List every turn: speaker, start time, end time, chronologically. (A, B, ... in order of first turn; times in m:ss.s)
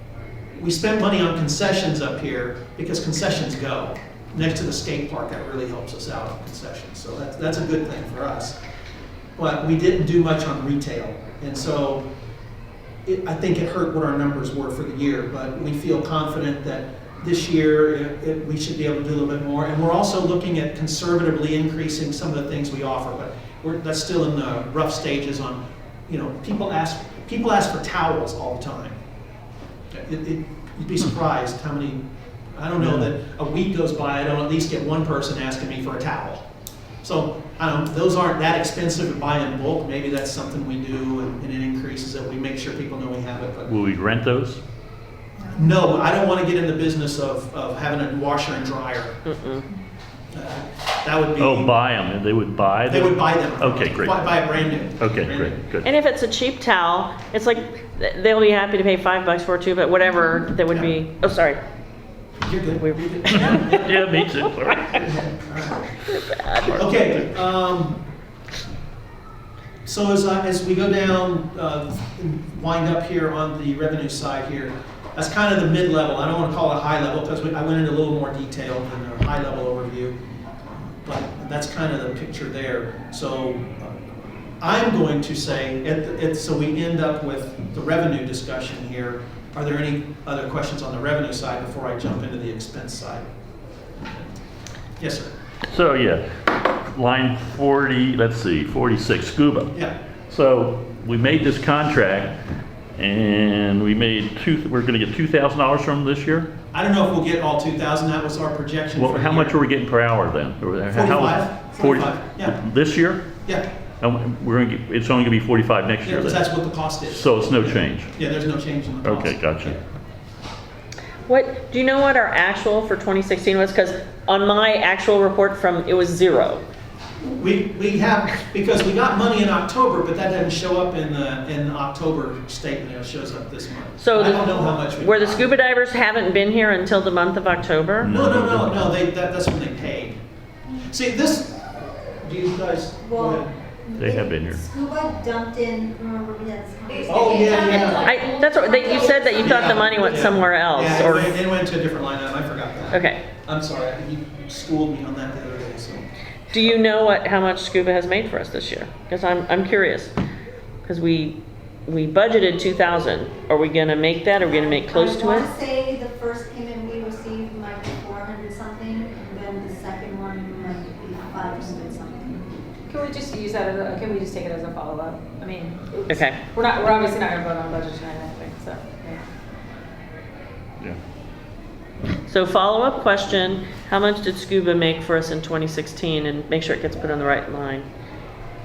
0:00.5-0:08.6 A
0:09.4-0:12.0 A
0:13.0-0:29.0 A
0:29.9-0:36.4 A
0:37.0-0:43.7 A
0:43.7-0:44.6 B
0:45.5-0:49.2 A
0:49.2-0:49.6 C
0:50.3-0:51.7 A
0:51.4-0:54.3 B
0:52.9-0:55.6 A
0:55.0-0:55.9 B
0:55.8-1:01.6 C
1:00.7-1:01.0 A
1:02.4-1:04.1 A
1:02.8-1:03.8 C
1:03.3-1:05.0 B
1:04.8-1:05.9 A
1:06.0-1:06.8 C
1:06.7-1:08.0 A
1:09.8-1:20.2 A
1:20.7-1:23.9 A
1:24.6-1:33.3 A
1:35.0-1:35.3 A
1:35.7-1:39.7 B
1:40.3-1:42.4 B
1:43.0-1:46.5 B
1:46.7-1:49.6 A
1:49.0-1:53.2 B
1:50.9-1:52.6 A
1:54.0-1:58.1 B
1:56.0-1:59.8 A
1:59.0-1:59.8 B
2:01.3-2:06.6 C
2:07.2-2:15.5 A
2:14.0-2:18.1 C
2:18.0-2:18.7 B
2:18.0-2:20.2 A
2:20.9-2:23.5 A
2:23.0-2:30.3 D
2:24.0-2:24.6 B
2:27.1-2:28.1 A
2:27.8-2:31.4 C
2:29.3-2:36.0 A
2:32.9-2:33.2 C
2:36.5-2:40.1 C
2:40.8-2:45.5 C
2:44.4-2:52.4 D
2:52.9-2:59.2 E
2:56.1-2:56.4 C
3:02.3-3:07.9 C